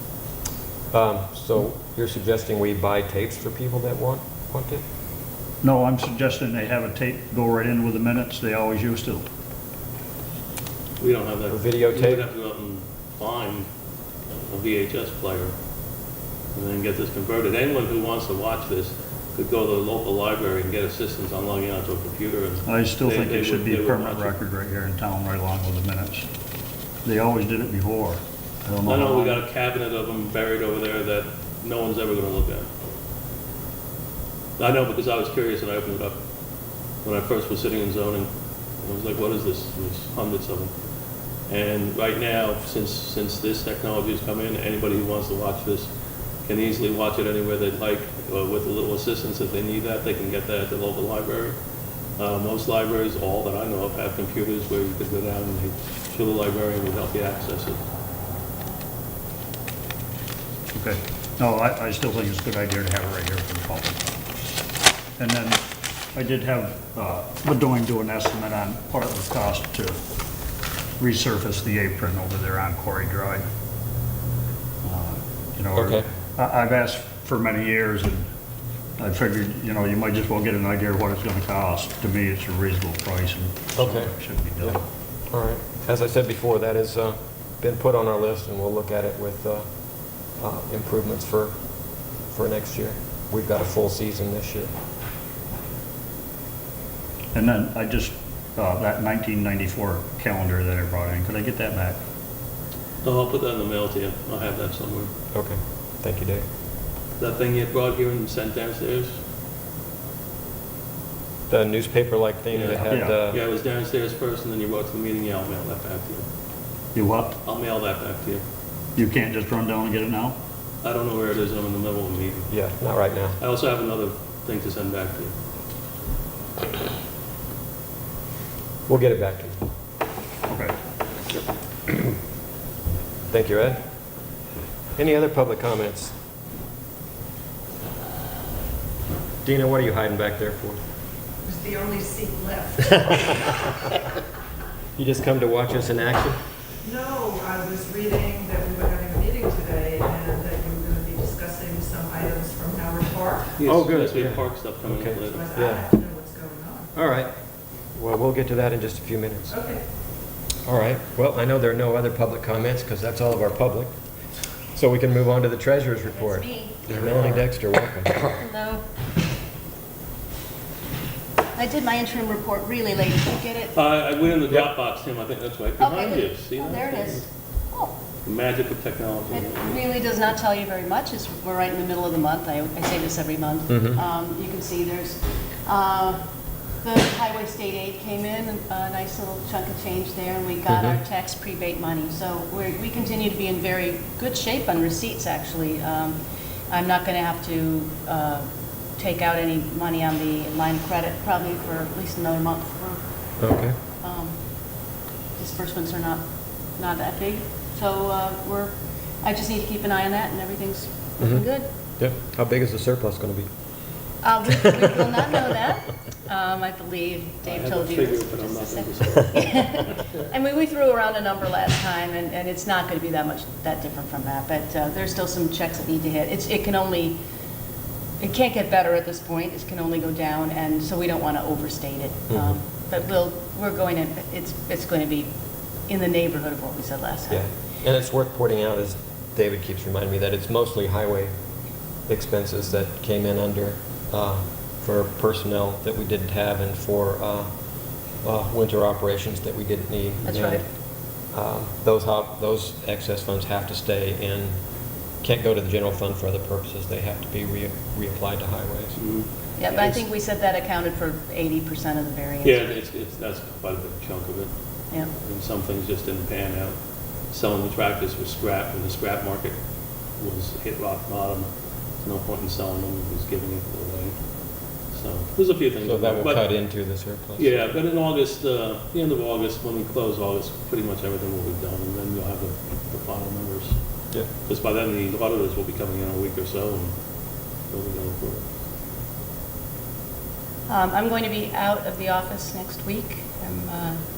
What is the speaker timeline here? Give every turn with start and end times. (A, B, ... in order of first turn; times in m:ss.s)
0:00.9-0:04.8 A
0:05.6-0:09.2 B
0:11.0-0:13.7 C
0:11.5-0:12.2 A
0:14.5-0:15.5 C
0:16.5-0:24.3 C
0:22.6-0:26.3 B
0:27.0-0:29.4 B
0:28.8-0:32.7 C
0:34.6-0:36.2 C
0:37.0-0:40.7 C
0:41.5-0:45.9 C
0:46.4-0:51.6 C
0:52.2-0:57.8 C
1:00.7-1:04.1 B
1:05.2-1:05.6 B
1:06.1-1:10.0 B
1:11.0-1:13.4 B
1:14.8-1:18.3 B
1:15.8-1:16.0 A
1:19.0-1:24.8 B
1:23.8-1:29.6 A
1:30.4-1:31.5 A
1:32.3-1:34.7 A
1:37.3-1:42.0 B
1:43.0-1:45.1 C
1:45.3-1:46.4 A
1:47.2-1:49.1 C
1:51.5-1:53.4 A
1:52.5-1:56.2 C
1:52.8-1:53.2 B
1:56.9-1:57.4 B
1:57.4-1:58.4 C
1:58.9-2:00.4 B
2:00.8-2:02.5 C
2:02.5-2:03.4 A
2:03.4-2:05.3 C
2:08.9-2:09.6 A
2:10.5-2:10.8 B
2:13.3-2:13.8 A
2:15.0-2:16.1 A
2:19.4-2:20.8 A
2:21.5-2:22.8 D
2:25.0-2:26.4 A
2:26.9-2:33.4 D
2:33.6-2:35.5 C
2:33.6-2:35.9 A
2:36.0-2:36.8 D
2:36.9-2:37.3 A
2:37.9-2:39.6 A
2:40.6-2:43.9 A
2:44.7-2:48.3 A
2:46.1-2:46.9 E
2:47.0-2:47.4 C
2:48.4-2:48.8 E
2:51.6-2:53.7 E
2:53.7-2:57.2 C
2:55.8-2:57.9 E
2:58.2-2:59.8 C
2:59.3-3:06.2 E
3:03.7-3:04.0 A
3:06.8-3:16.2 E
3:10.7-3:11.0 A
3:16.7-3:23.0 E
3:23.4-3:23.8 A
3:24.0-3:24.4 E
3:25.4-3:26.2 E
3:26.8-3:31.6 E
3:31.2-3:31.4 A
3:32.0-3:33.5 A
3:34.2-3:47.2 E
3:37.4-3:40.2 C
3:48.2-3:55.3 E
3:52.3-3:52.5 A
3:55.9-3:57.4 E
3:57.3-4:01.3 A
4:02.1-4:07.5 A
4:08.2-4:10.6 A
4:10.2-4:10.6 E
4:11.3-4:14.6 A
4:15.2-4:19.0 A
4:19.0-4:20.0 C
4:19.6-4:22.7 E
4:22.4-4:24.5 C
4:25.1-4:26.8 C
4:27.3-4:29.6 C
4:30.2-4:31.5 C
4:32.0-4:34.1 C
4:34.9-4:36.4 C
4:35.8-4:37.6 A
4:37.4-4:43.8 C
4:44.4-4:46.9 C
4:47.7-4:48.4 C
4:50.7-4:54.0 E